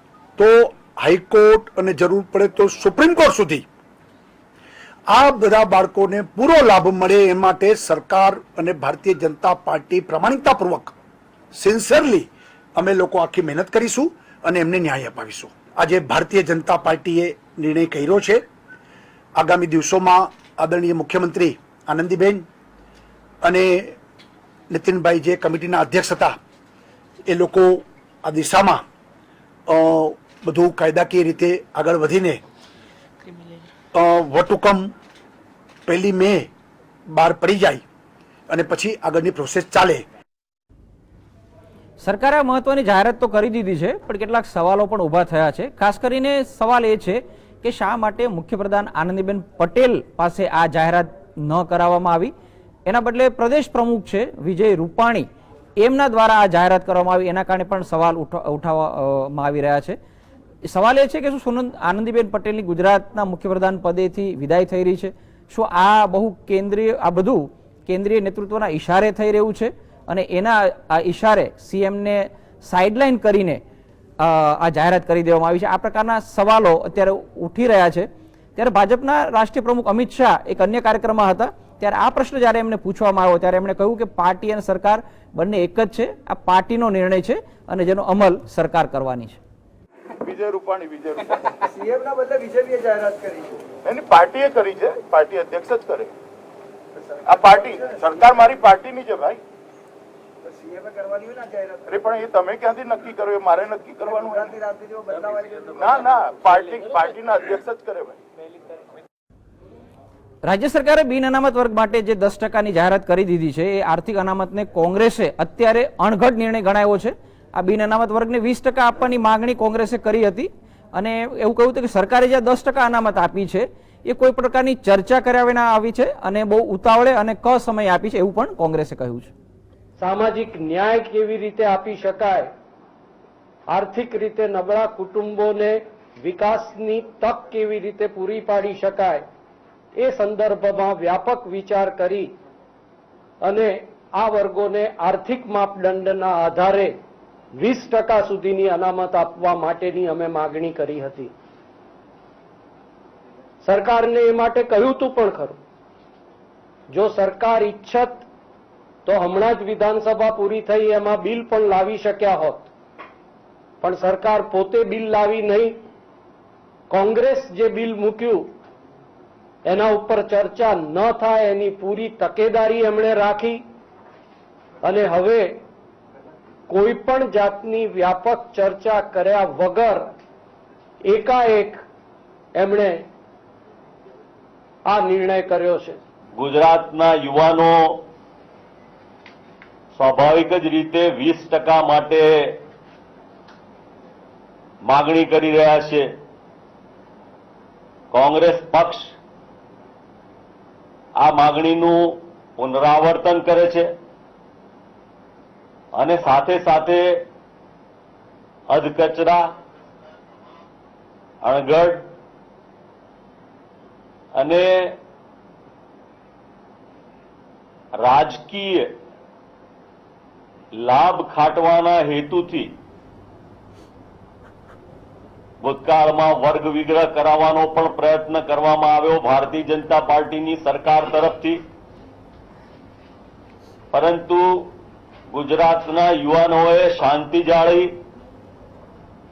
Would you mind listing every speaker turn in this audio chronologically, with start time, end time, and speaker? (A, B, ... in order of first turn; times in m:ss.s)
0:00.4-0:03.6 A
0:05.1-0:11.0 A
0:11.5-0:18.4 A
0:19.4-0:22.5 A
0:23.4-0:24.0 A
0:24.7-0:26.4 A
0:27.3-0:28.8 A
0:29.7-0:32.4 A
0:33.9-0:34.9 A
0:35.9-0:36.5 A
0:37.1-0:37.8 A
0:38.5-0:40.0 A
0:42.0-0:52.3 B
0:52.9-0:55.3 B
0:55.8-1:00.0 B
1:00.7-1:13.6 B
1:14.2-1:29.4 B
1:30.2-1:31.3 C
1:31.7-1:33.7 D
1:33.8-1:36.1 C
1:37.3-1:39.4 C
1:37.5-1:37.9 D
1:40.4-1:41.9 D
1:41.9-1:44.5 C
1:44.0-1:46.1 D
1:45.8-1:48.2 C
1:50.4-2:09.3 B
2:10.0-2:12.5 E
2:13.7-2:19.3 E
2:20.0-2:22.3 E
2:23.4-2:27.0 E
2:27.6-2:31.3 E
2:33.6-2:35.6 E
2:36.9-2:38.2 E
2:39.0-2:42.7 E
2:43.8-2:45.8 E
2:46.9-2:48.5 E
2:49.6-2:53.6 E
2:54.8-2:55.6 E
2:56.7-3:00.1 E
3:01.1-3:01.8 E
3:02.6-3:03.1 E
3:04.9-3:06.0 E
3:06.4-3:08.0 F
3:10.0-3:12.6 F
3:14.8-3:16.1 F
3:18.1-3:19.1 F
3:21.2-3:23.9 F
3:26.0-3:27.2 F
3:28.7-3:29.5 F
3:31.4-3:32.1 F
3:34.4-3:35.0 F
3:38.0-3:39.0 F
3:40.7-3:42.8 F
3:45.6-3:51.6 F
3:53.9-3:54.7 F
3:55.3-3:58.0 F